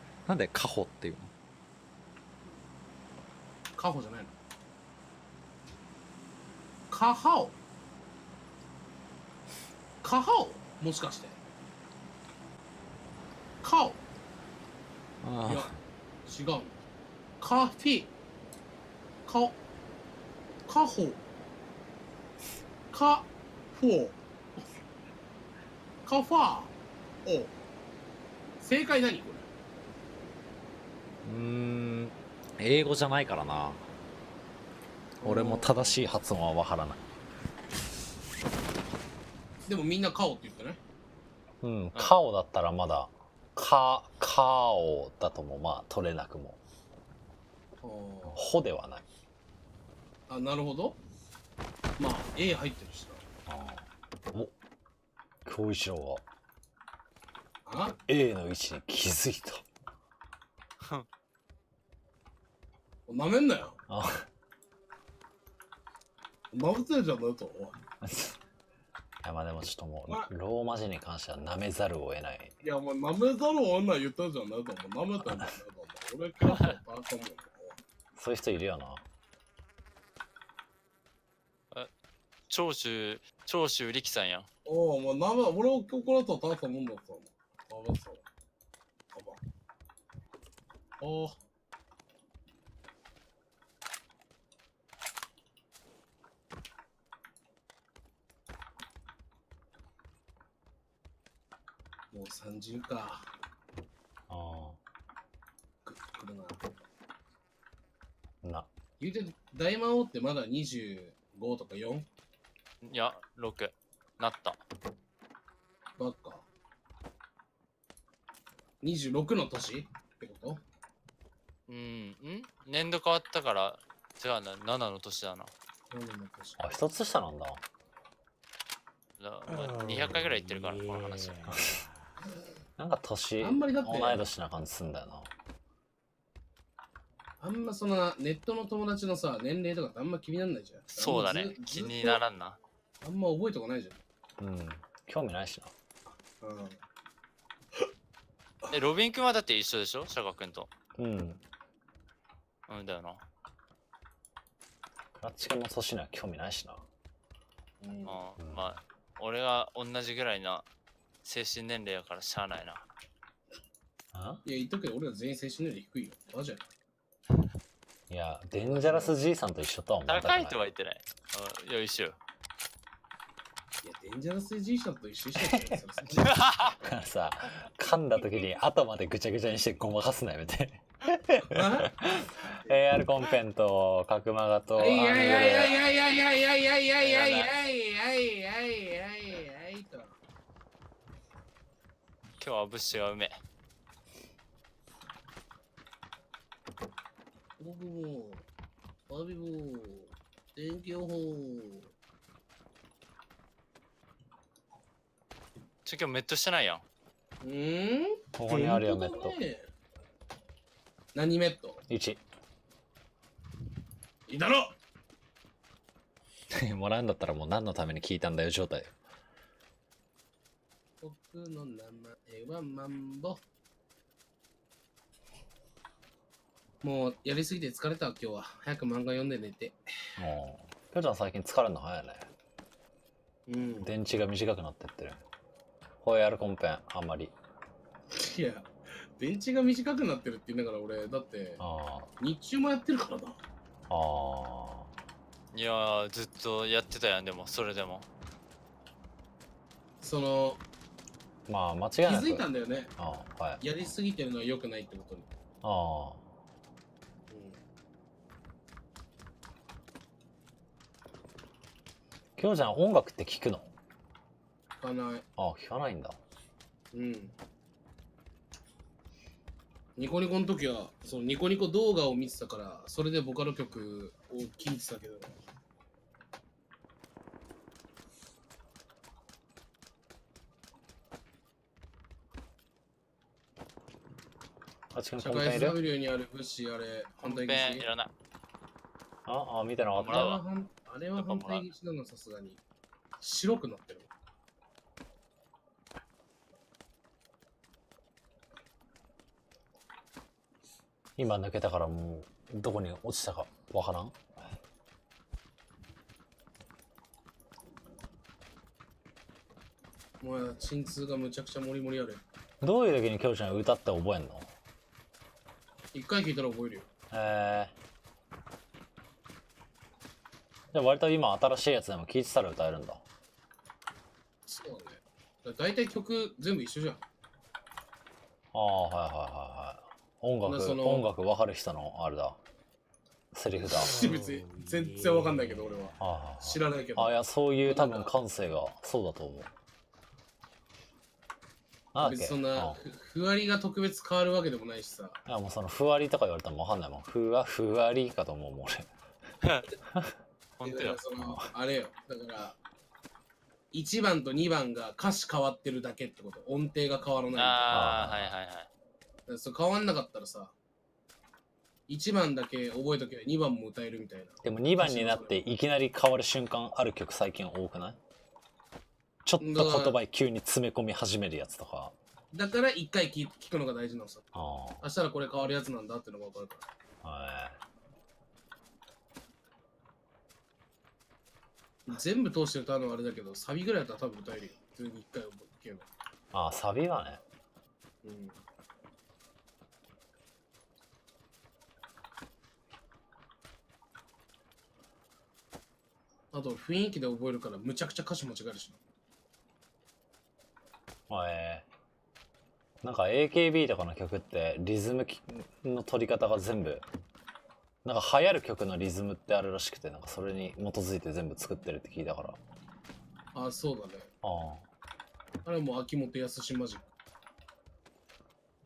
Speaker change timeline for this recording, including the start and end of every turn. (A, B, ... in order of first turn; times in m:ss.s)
0:00.2-0:01.3 A
0:03.8-0:04.3 B
0:06.9-0:07.6 B
0:10.0-0:11.4 B
0:13.6-0:14.0 B
0:15.2-0:15.7 A
0:15.4-0:16.8 B
0:17.4-0:18.1 B
0:19.2-0:19.6 B
0:20.7-0:21.2 B
0:22.9-0:24.2 B
0:26.0-0:26.7 B
0:27.2-0:27.5 B
0:28.6-0:29.5 B
0:31.2-0:33.8 A
0:35.2-0:36.0 B
0:35.2-0:37.0 A
0:39.7-0:40.8 B
0:41.6-0:46.6 A
0:47.8-0:48.4 B
0:48.3-0:49.0 A
0:50.3-0:51.0 B
0:52.0-0:53.2 B
0:53.5-0:54.5 A
0:55.4-0:56.2 A
0:57.6-0:58.0 B
0:58.1-0:59.6 A
1:00.8-1:01.1 C
1:03.1-1:03.8 B
1:03.9-1:04.3 A
1:06.5-1:07.8 B
1:08.0-1:08.4 A
1:09.2-1:12.5 A
1:12.6-1:17.8 B
1:16.4-1:16.7 C
1:18.2-1:19.0 A
1:22.5-1:24.5 C
1:24.6-1:28.2 B
1:29.1-1:29.4 B
1:31.0-1:31.4 B
1:42.1-1:43.3 B
1:44.3-1:44.8 A
1:45.8-1:46.6 B
1:48.4-1:48.7 A
1:49.0-1:52.0 B
1:52.8-1:54.6 C
1:56.0-1:56.4 B
1:58.8-2:00.6 B
2:01.7-2:05.5 C
2:02.2-2:02.5 B
2:05.9-2:06.6 B
2:06.6-2:07.6 A
2:09.2-2:11.5 C
2:11.5-2:11.8 A
2:12.8-2:15.3 A
2:13.4-2:14.2 B
2:17.4-2:22.2 B
2:21.0-2:22.6 C
2:23.0-2:24.0 B
2:24.4-2:25.7 A
2:26.4-2:26.8 B
2:28.7-2:30.7 C
2:31.0-2:31.4 A
2:32.7-2:33.2 C
2:35.2-2:36.8 A
2:37.8-2:38.2 B
2:38.0-2:40.6 C
2:38.4-2:38.8 A
2:41.2-2:42.8 C
2:44.1-2:44.4 A
2:44.4-2:46.7 B
2:48.1-2:50.6 A
2:48.6-2:49.2 B
2:50.1-2:52.2 C
2:53.8-2:56.4 B
2:55.4-2:55.8 A
2:56.1-2:56.7 C
2:56.8-3:05.7 A
3:01.5-3:02.8 B
3:04.8-3:10.2 B
3:07.0-3:07.5 C
3:12.4-3:13.3 C
3:17.6-3:18.4 B
3:19.1-3:21.9 B
3:25.8-3:26.8 C
3:27.4-3:29.7 B
3:28.4-3:29.4 A
3:31.1-3:31.8 B
3:31.9-3:32.2 A
3:34.3-3:34.8 B
3:36.5-3:38.9 A
3:41.0-3:43.4 B
3:46.8-3:49.8 B
3:50.2-3:52.3 A
3:53.5-3:53.9 B
3:53.8-3:55.2 A
3:56.0-3:57.3 A
3:58.1-4:01.6 B
4:01.6-4:02.1 A
4:02.2-4:03.4 B
4:03.9-4:04.9 A
4:05.5-4:08.0 C
4:10.0-4:10.6 B
4:11.5-4:12.4 A
4:12.0-4:12.9 B
4:13.0-4:13.6 A
4:13.6-4:15.3 B
4:15.6-4:16.2 A
4:17.3-4:17.6 B
4:22.4-4:23.7 A
4:24.8-4:25.2 B
4:25.4-4:26.2 A
4:26.9-4:27.3 B
4:30.0-4:35.4 B
4:44.9-4:45.8 A
4:45.2-4:47.8 B
4:47.2-4:48.1 C
4:49.2-4:50.2 A
4:50.0-4:50.4 C
4:50.0-4:52.6 B
4:51.2-4:51.7 C
4:53.2-4:54.1 B
5:01.2-5:04.2 A
5:10.2-5:12.2 B
5:12.6-5:14.5 A
5:15.9-5:16.9 B
5:17.1-5:17.7 A
5:20.7-5:23.0 A
5:24.4-5:27.0 B
5:28.5-5:32.4 A
5:30.4-5:31.0 B
5:33.3-5:33.9 A
5:33.6-5:37.1 B
5:36.0-5:39.5 A
5:37.6-5:38.1 B
5:41.9-5:42.8 A
5:42.0-5:45.2 B
5:45.3-5:48.9 A
5:49.9-5:50.1 A
5:50.6-5:51.0 C
5:50.6-5:52.6 B
5:51.2-5:51.5 A
5:53.7-5:57.9 B
5:57.3-5:58.7 C
5:57.7-5:58.3 A
5:59.3-6:00.5 B
6:01.9-6:05.4 B
6:04.4-6:08.0 A
6:09.2-6:11.9 A
6:09.4-6:10.0 B
6:12.3-6:16.6 B
6:14.3-6:14.8 A
6:17.0-6:17.6 A
6:21.8-6:25.9 B
6:26.3-6:27.2 A
6:28.0-6:28.4 B
6:36.3-6:38.8 B
6:41.1-6:41.6 A
6:42.8-6:46.8 A
6:47.8-6:52.4 A
6:53.3-6:54.1 B
6:54.2-6:54.6 A
6:55.4-6:56.8 B